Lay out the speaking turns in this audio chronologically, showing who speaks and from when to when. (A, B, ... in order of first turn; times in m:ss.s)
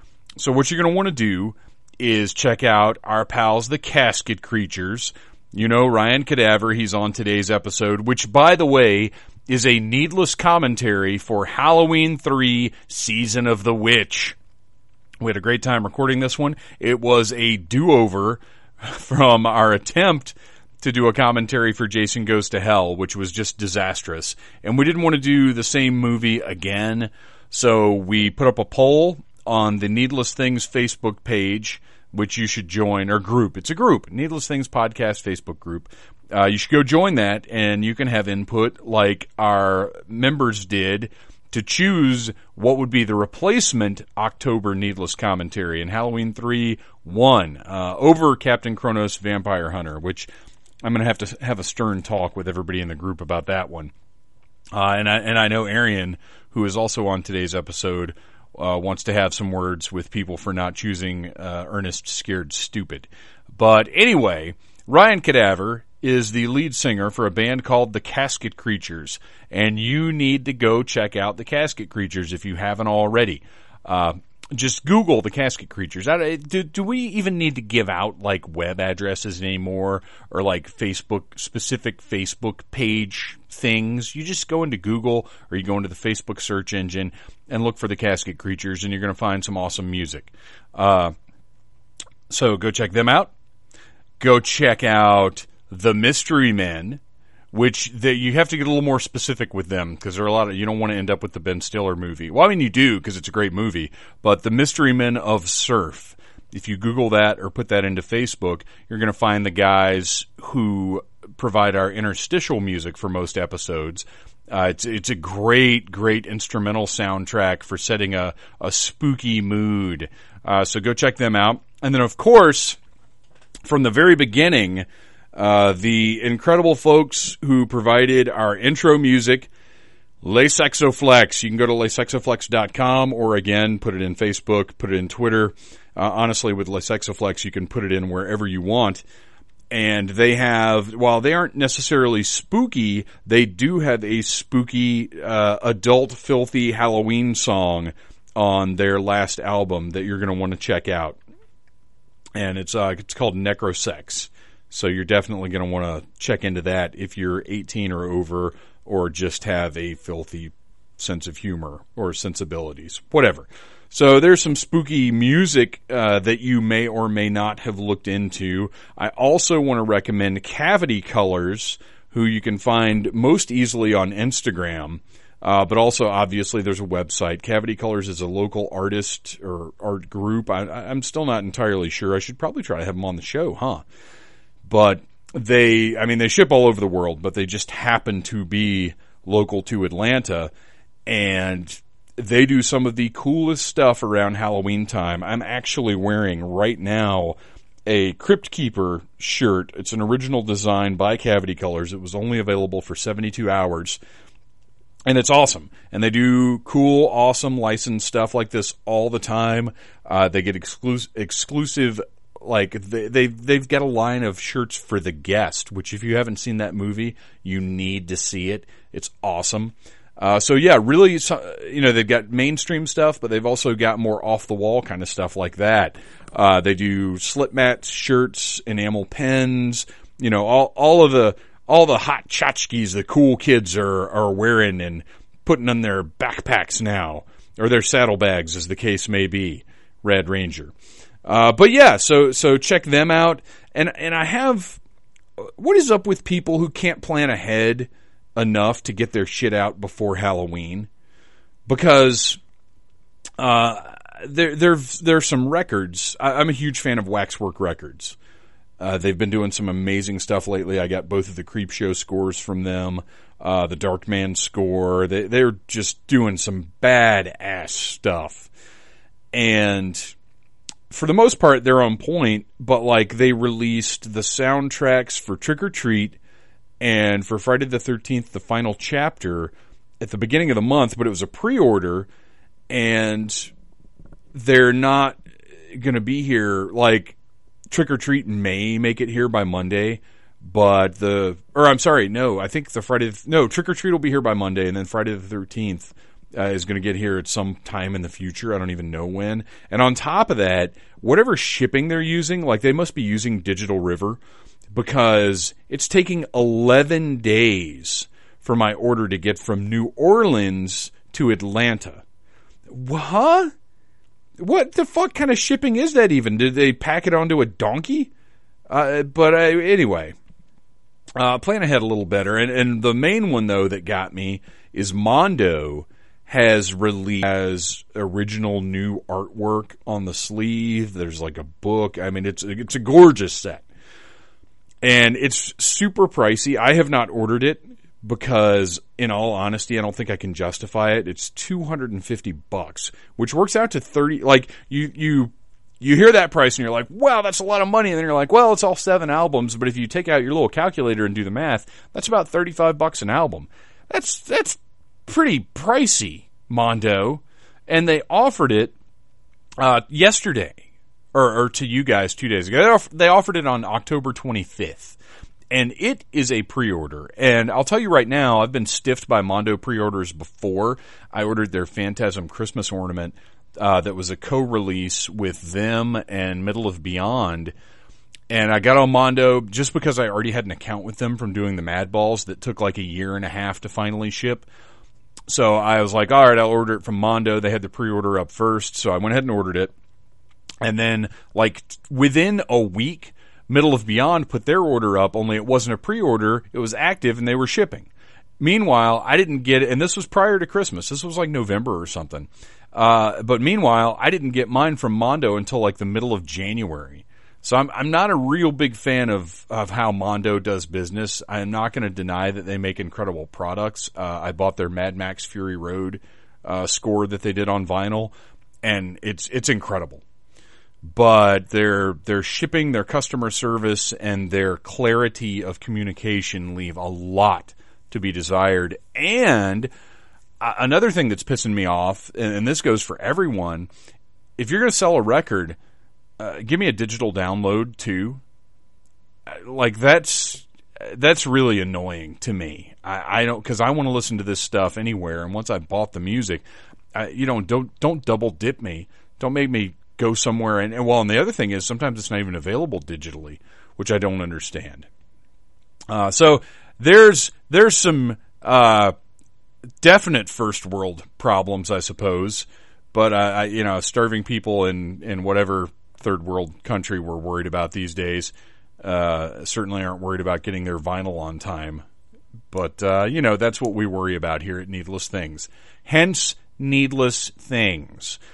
0:00.4-0:14.4 A
0:15.2-0:50.3 A
0:50.8-0:53.9 A
0:54.7-1:31.1 A
1:32.3-1:33.3 A
1:34.2-1:37.0 A
1:37.5-2:02.8 A
2:03.6-2:09.5 A
2:10.2-2:19.0 A
2:19.7-2:31.2 A
2:32.3-3:03.8 A
3:04.6-3:10.5 A
3:11.0-3:24.0 A
3:25.0-4:00.7 A
4:01.2-4:04.8 A
4:05.4-4:10.9 A
4:11.7-4:12.4 A
4:13.4-4:18.2 A
4:18.8-4:28.5 A
4:29.3-4:30.1 A
4:30.9-4:36.2 A
4:36.8-4:42.1 A
4:42.7-4:43.5 A
4:44.3-4:47.2 A
4:47.7-5:04.2 A
5:04.7-5:12.0 A
5:12.7-5:13.5 A
5:14.4-5:18.1 A
5:18.7-5:20.1 A
5:21.2-5:33.6 A
5:34.8-5:58.7 A
5:59.6-6:00.6 A
6:01.1-6:05.0 A
6:05.5-6:17.5 A
6:18.3-6:24.5 A
6:25.3-6:29.7 A
6:30.6-6:37.9 A
6:38.4-7:00.0 A
7:00.8-7:09.7 A
7:10.4-7:13.7 A
7:14.4-7:15.6 A
7:16.2-7:18.2 A
7:19.3-7:26.4 A
7:26.9-7:34.9 A
7:35.9-7:38.9 A
7:39.8-7:51.8 A
7:52.5-7:58.2 A